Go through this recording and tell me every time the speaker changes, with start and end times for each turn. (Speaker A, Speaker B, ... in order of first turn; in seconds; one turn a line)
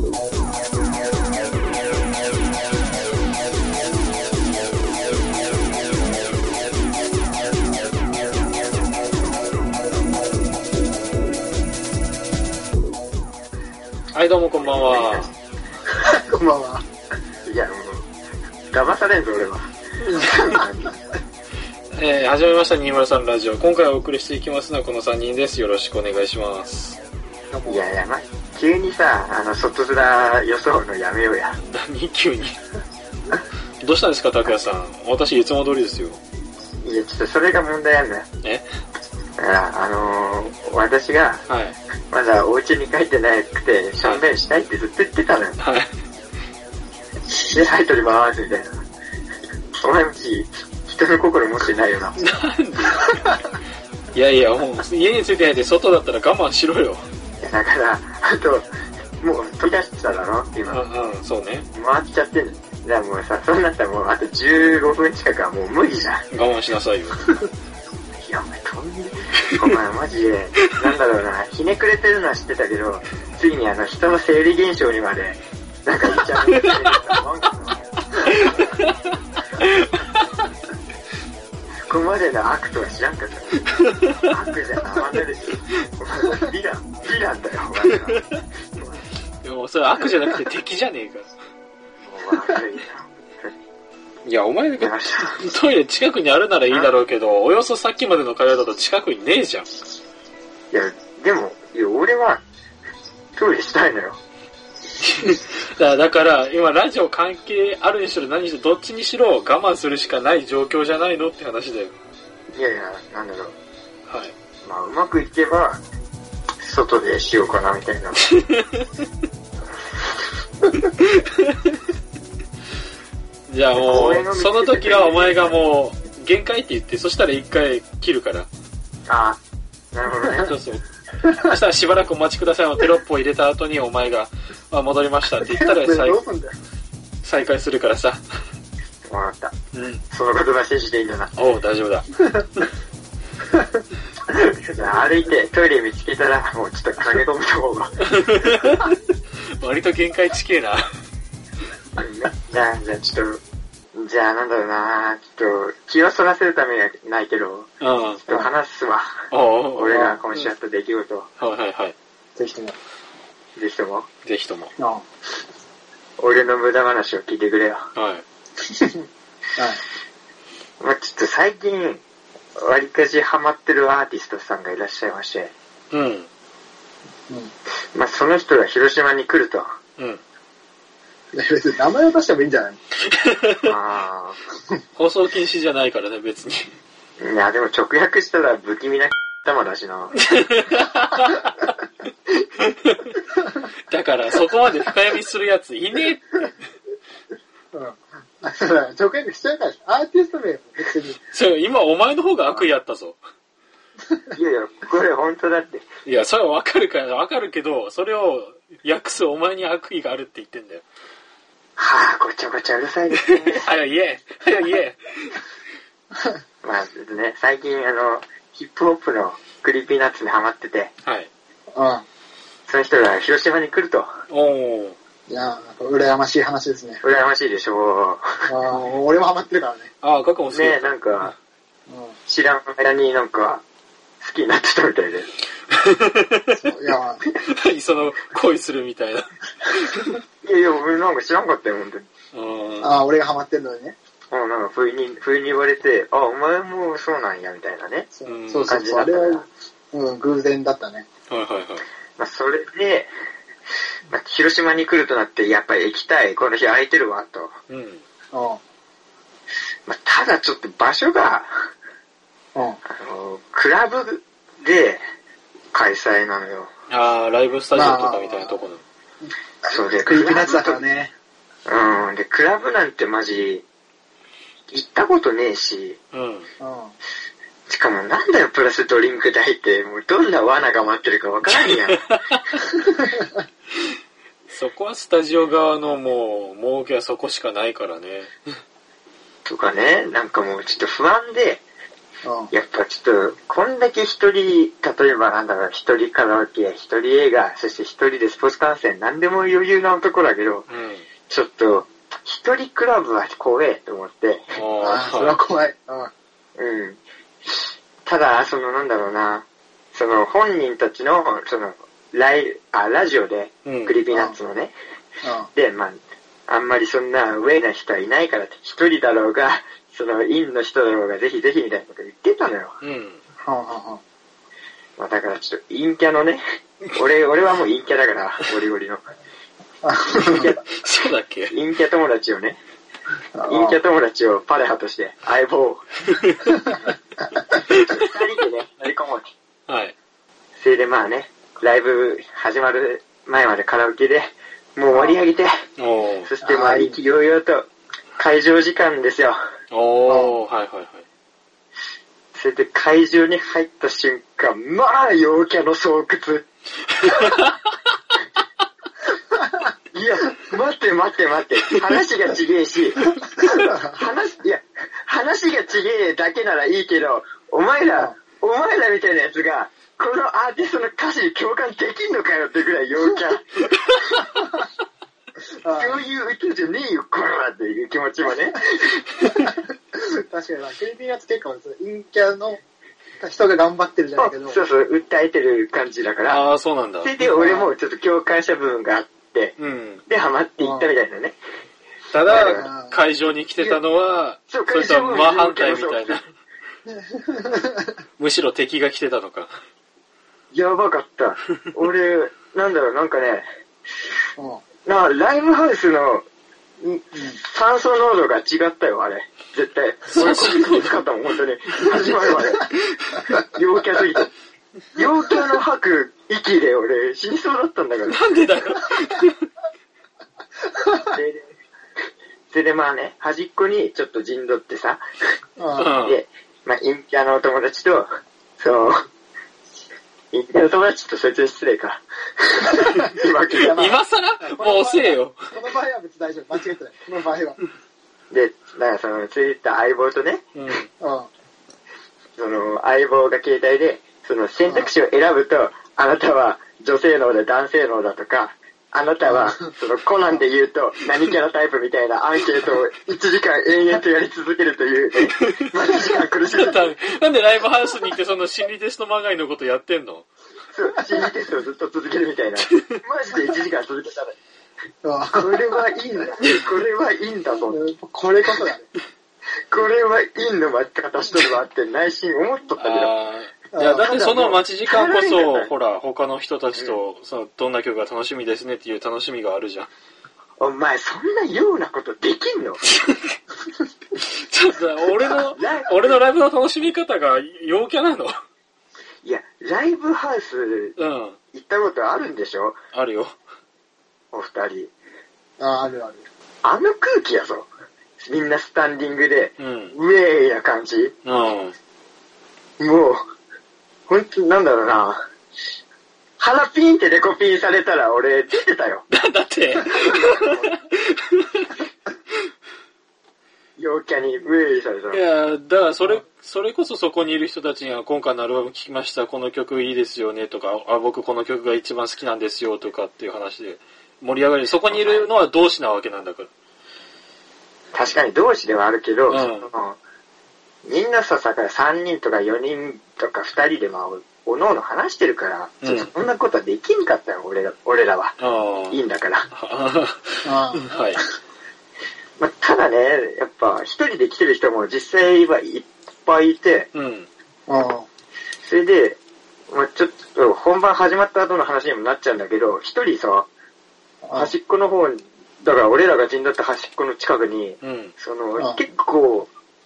Speaker A: 14.1-15.3
Speaker B: 14.6-15.3
Speaker C: 16.0-16.9
Speaker B: 17.4-18.1
Speaker B: 18.7-20.9
Speaker C: 20.0-20.3
Speaker A: 21.9-27.0
Speaker C: 27.5-27.9
Speaker B: 27.7-31.6
Speaker A: 31.6-32.6
Speaker A: 33.8-36.2
Speaker B: 36.8-38.3
Speaker B: 39.4-41.5
Speaker A: 41.5-41.8
Speaker B: 42.1-45.6
Speaker A: 45.6-45.9
Speaker B: 47.4-48.8
Speaker B: 49.8-52.2
Speaker A: 52.2-53.4
Speaker A: 54.1-57.1
Speaker B: 57.4-58.7
Speaker B: 59.2-60.9
Speaker A: 60.6-61.7
Speaker B: 61.7-66.3
Speaker A: 66.3-67.3
Speaker B: 68.2-77.8
Speaker A: 76.2-76.7
Speaker A: 78.3-78.9
Speaker A: 79.6-80.2
Speaker B: 81.9-83.7
Speaker A: 83.8-84.2
Speaker B: 84.3-89.0
Speaker A: 88.1-88.4
Speaker A: 89.4-91.3
Speaker B: 92.0-93.5
Speaker A: 94.2-99.7
Speaker B: 94.8-95.5
Speaker B: 100.7-102.4
Speaker B: 103.4-104.2
Speaker A: 105.1-112.0
Speaker B: 112.5-113.5
Speaker A: 114.1-114.3
Speaker B: 114.6-115.8
Speaker B: 116.6-118.3
Speaker A: 118.3-118.7
Speaker A: 123.5-128.5
Speaker B: 123.7-125.6
Speaker B: 129.1-129.4
Speaker B: 129.9-130.5
Speaker A: 130.4-130.8
Speaker A: 131.4-136.2
Speaker C: 135.4-136.6
Speaker A: 137.2-138.2
Speaker B: 139.1-139.5
Speaker A: 139.7-140.0
Speaker B: 140.1-141.3
Speaker A: 141.4-142.3
Speaker B: 144.6-148.0
Speaker A: 148.0-148.9
Speaker A: 149.6-150.9
Speaker B: 152.0-153.4
Speaker B: 153.9-157.7
Speaker A: 157.8-158.2
Speaker B: 158.3-161.3
Speaker A: 159.3-160.5
Speaker A: 161.4-161.9
Speaker C: 162.4-162.8
Speaker B: 163.6-164.1
Speaker A: 164.2-164.7
Speaker C: 164.8-165.1
Speaker B: 166.2-167.8
Speaker A: 168.0-168.2
Speaker C: 168.7-169.0
Speaker C: 169.6-169.8
Speaker B: 170.8-172.0
Speaker B: 172.6-175.5
Speaker A: 175.9-176.3
Speaker B: 177.9-179.7
Speaker C: 181.3-182.8
Speaker A: 183.1-183.7
Speaker B: 183.6-184.4
Speaker A: 185.0-186.7
Speaker B: 187.2-190.2
Speaker A: 190.2-191.7
Speaker A: 192.7-193.0
Speaker A: 193.9-196.5
Speaker C: 197.7-201.2
Speaker A: 201.3-203.2
Speaker B: 204.3-205.9
Speaker A: 206.1-210.8
Speaker B: 211.8-213.6
Speaker A: 213.5-215.4
Speaker B: 216.6-220.9
Speaker C: 221.7-222.0
Speaker B: 222.7-224.1
Speaker A: 224.3-225.0
Speaker C: 225.3-227.0
Speaker B: 227.0-228.5
Speaker C: 228.5-229.9
Speaker A: 230.0-230.9
Speaker B: 230.5-231.3
Speaker C: 231.9-232.2
Speaker B: 232.3-233.6
Speaker B: 234.2-235.3
Speaker A: 235.8-236.5
Speaker C: 236.6-237.2
Speaker A: 237.4-240.0
Speaker B: 240.4-242.1
Speaker A: 242.3-242.9
Speaker C: 242.8-244.0
Speaker B: 244.3-248.1
Speaker C: 248.1-251.1
Speaker A: 248.3-248.8
Speaker B: 248.7-249.5
Speaker A: 251.3-251.8
Speaker B: 252.2-253.1
Speaker B: 254.1-257.5
Speaker A: 257.7-258.0
Speaker C: 258.3-258.6
Speaker B: 259.9-261.7
Speaker B: 262.9-265.0
Speaker B: 265.7-266.7
Speaker A: 266.9-268.8
Speaker C: 267.7-268.4
Speaker C: 269.6-271.1
Speaker B: 269.7-270.8
Speaker B: 271.7-273.6
Speaker B: 274.7-276.0
Speaker A: 276.1-276.5
Speaker C: 276.6-276.9
Speaker B: 277.7-282.0
Speaker A: 281.5-282.6
Speaker A: 284.5-288.4
Speaker B: 289.5-291.6
Speaker C: 292.2-292.5
Speaker B: 292.5-300.7
Speaker A: 300.7-301.1
Speaker B: 301.3-304.5
Speaker A: 304.6-305.4
Speaker C: 304.8-306.1
Speaker B: 306.6-314.8
Speaker A: 313.6-314.0
Speaker C: 314.1-314.4
Speaker C: 315.2-315.5
Speaker B: 315.6-322.8
Speaker A: 322.8-323.2
Speaker C: 323.4-324.0
Speaker B: 325.0-326.4
Speaker B: 326.9-329.0
Speaker C: 329.8-330.5
Speaker B: 330.2-330.7
Speaker A: 330.8-331.5
Speaker B: 331.5-332.6
Speaker C: 333.4-333.8
Speaker B: 333.5-335.8
Speaker A: 336.1-336.5
Speaker A: 337.7-338.0
Speaker B: 337.8-339.3
Speaker A: 339.7-339.9
Speaker B: 340.6-345.6
Speaker C: 344.9-345.2
Speaker A: 345.8-346.3
Speaker B: 346.2-349.4
Speaker C: 346.4-347.0
Speaker A: 349.7-351.1
Speaker C: 350.1-350.4
Speaker B: 352.3-356.4
Speaker A: 357.1-357.6
Speaker B: 359.9-373.6
Speaker C: 375.6-376.0
Speaker B: 375.7-379.5
Speaker C: 379.3-379.6
Speaker C: 380.2-382.6
Speaker C: 383.2-384.6
Speaker B: 384.2-386.4
Speaker A: 386.3-387.1
Speaker B: 387.0-391.4
Speaker C: 387.2-387.7
Speaker A: 389.6-390.0
Speaker C: 390.6-390.9
Speaker A: 392.1-396.3
Speaker B: 392.2-392.7
Speaker C: 392.3-393.0
Speaker B: 394.5-396.2
Speaker C: 396.9-397.9
Speaker A: 398.2-399.5
Speaker B: 400.5-403.5
Speaker C: 404.4-404.6
Speaker B: 404.9-406.2
Speaker B: 406.8-414.3
Speaker C: 407.1-407.4
Speaker A: 410.1-411.0
Speaker B: 414.9-418.2
Speaker A: 418.1-419.5
Speaker C: 420.8-421.1
Speaker B: 421.0-421.5
Speaker B: 422.5-425.0
Speaker C: 425.6-425.9
Speaker A: 425.8-426.2
Speaker B: 425.9-428.1
Speaker B: 428.6-429.0
Speaker B: 430.3-433.9
Speaker C: 432.8-437.6
Speaker A: 433.7-435.4
Speaker B: 438.3-440.4
Speaker A: 440.5-440.9
Speaker C: 441.0-441.3
Speaker B: 442.4-456.8
Speaker A: 455.3-455.7
Speaker A: 456.5-460.3
Speaker B: 460.7-464.4
Speaker C: 461.0-461.3
Speaker C: 465.0-465.7
Speaker B: 465.3-467.8
Speaker C: 467.7-468.9
Speaker B: 469.7-473.1
Speaker A: 472.8-479.9
Speaker C: 473.7-474.6
Speaker B: 474.2-475.7
Speaker B: 480.6-482.8
Speaker A: 482.9-483.4
Speaker A: 484.2-488.3
Speaker B: 485.5-486.2
Speaker B: 489.2-491.0
Speaker A: 491.0-491.4
Speaker B: 491.5-492.8
Speaker A: 492.9-493.4
Speaker B: 494.3-494.9
Speaker C: 495.6-496.3
Speaker B: 496.6-497.7
Speaker B: 498.2-501.1
Speaker A: 499.6-499.9
Speaker A: 501.2-501.8
Speaker B: 502.8-503.2
Speaker B: 504.1-505.2
Speaker B: 506.4-509.1
Speaker A: 509.1-511.7
Speaker B: 509.8-510.8
Speaker B: 513.8-515.2
Speaker A: 515.1-526.5
Speaker B: 524.9-525.3
Speaker B: 527.9-530.0
Speaker A: 529.3-529.7
Speaker B: 530.9-538.4
Speaker A: 535.8-536.1
Speaker A: 538.4-539.0
Speaker B: 538.9-539.5
Speaker A: 539.5-541.2
Speaker C: 540.4-541.2
Speaker B: 542.4-546.9
Speaker A: 546.9-547.3
Speaker C: 547.7-548.1
Speaker B: 548.6-549.2
Speaker B: 549.7-553.5
Speaker C: 554.2-554.5
Speaker B: 554.3-559.5
Speaker A: 557.8-558.1